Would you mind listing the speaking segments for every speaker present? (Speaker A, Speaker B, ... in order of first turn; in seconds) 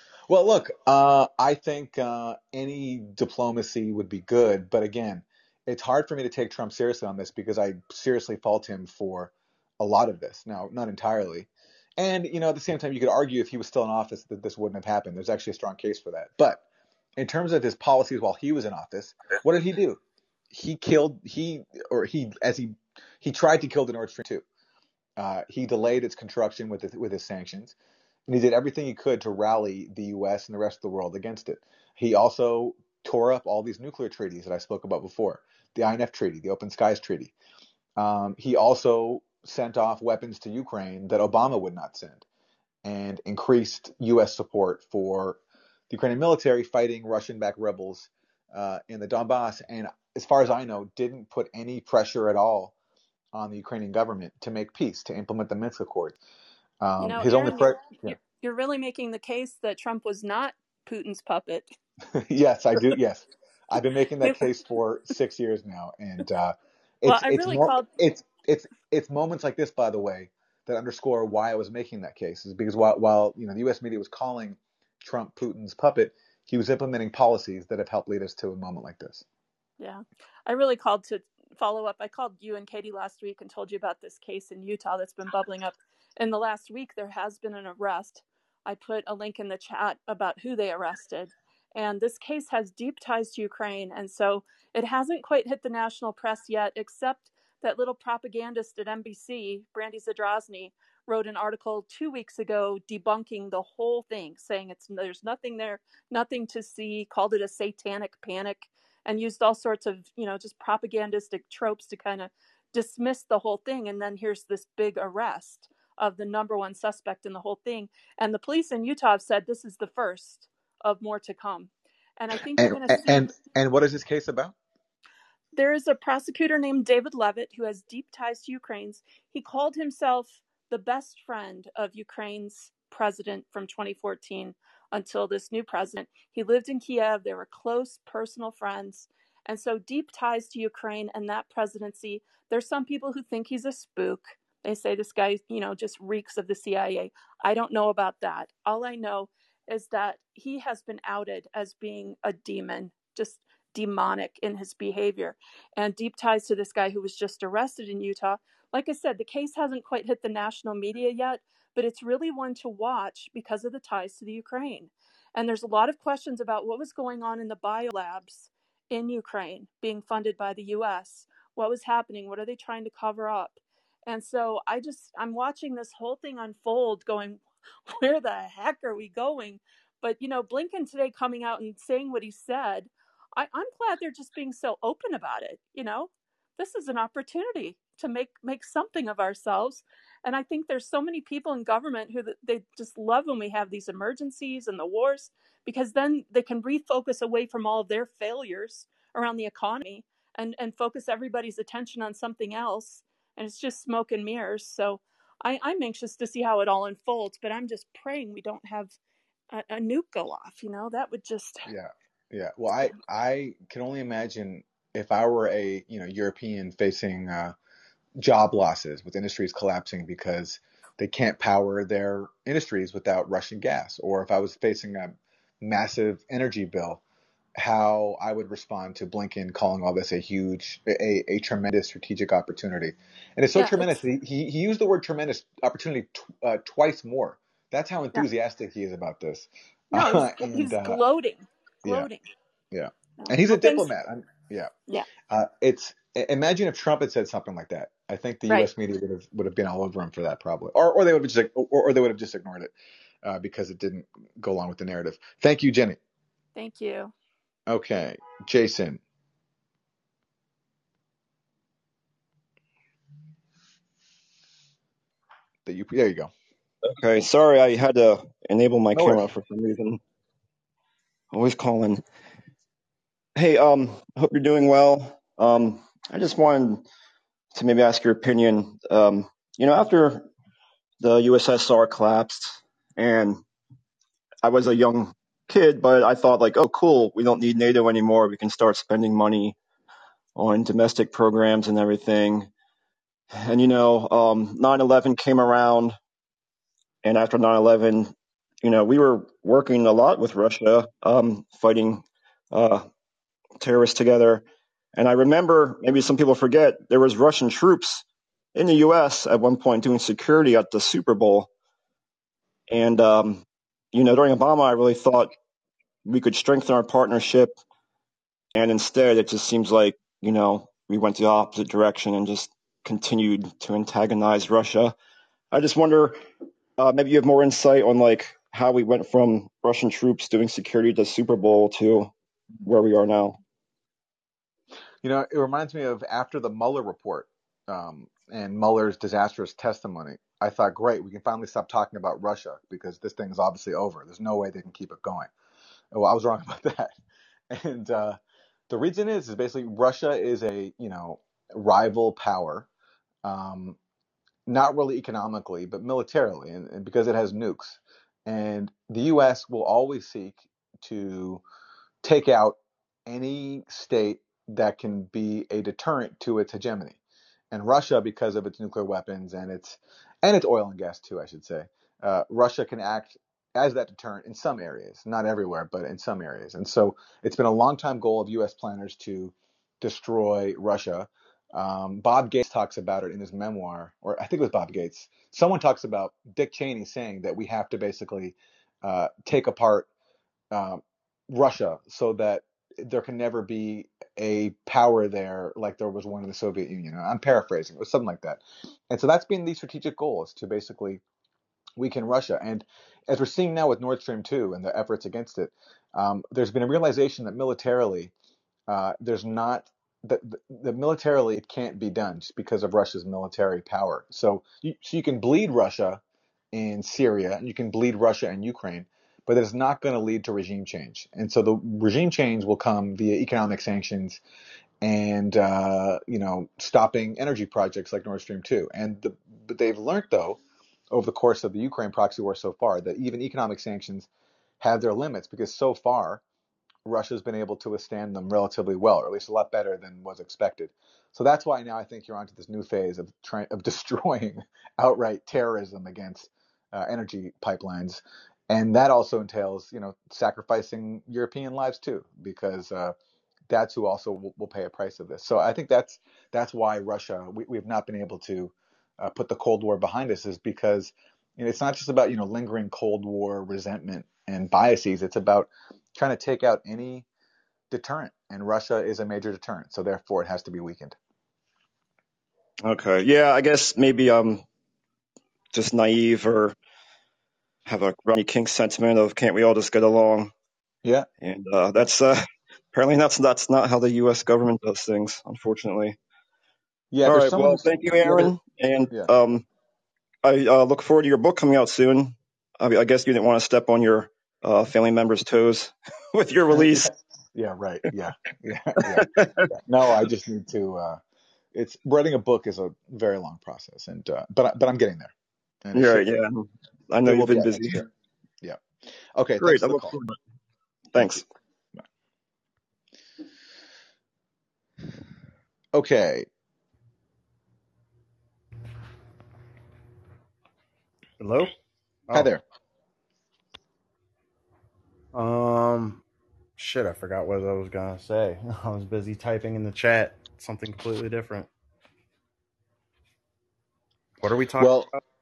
Speaker A: 0.3-16.6, 17.2-20.0, 20.5-24.4, 25.2-27.7, 28.3-37.3, 38.0-42.2, 42.8-52.7, 53.3-56.2, 56.8-58.2, 62.1-79.2, 122.6-124.5, 211.7-217.5, 218.2-227.0, 227.6-241.0, 241.8-242.1, 242.7-244.7, 245.3-252.7, 253.2-256.0, 257.7-259.0, 265.6-266.3, 268.9-269.2, 335.0-345.3, 345.9-346.9, 347.5-348.2, 348.7-352.7, 353.2-353.8, 354.5-361.4, 362.0-367.0, 367.5-389.9, 390.5-401.0, 401.8-408.1, 408.7-416.0, 416.5-424.2, 424.8-430.4, 430.9-434.1, 434.6-436.2, 436.9-452.9, 453.5-467.1, 467.7-470.9, 486.9-488.3, 496.5-501.0, 501.5-505.1, 505.6-506.2, 507.0-507.9, 509.2-510.0, 515.7-516.3, 522.1-522.4, 534.6-534.9
Speaker B: 57.0-61.7, 64.2-64.6, 67.0-67.9, 79.8-123.3, 125.5-209.0, 209.5-211.7, 233.5-234.0, 239.9-242.3, 243.3-243.9, 256.6-257.1
Speaker C: 266.8-270.0, 271.3-272.0, 273.4-276.9, 277.5-280.3, 281.0-283.4, 284.4-289.6, 290.4-292.5, 293.3-296.0, 297.0-302.9, 303.6-308.0, 308.6-311.5, 312.7-315.3, 316.1-317.6, 318.6-324.9, 325.5-326.2, 326.8-332.1, 332.6-333.4, 472.6-474.4, 475.5-476.6, 477.7-480.3, 481.2-482.2, 482.7-486.0, 487.1-489.4, 490.2-496.9, 498.8-499.4, 505.7-507.9, 509.4-510.2, 510.9-511.2
Speaker D: 521.2-521.5, 522.1-522.4, 525.1-526.0, 526.6-531.5, 534.2-535.0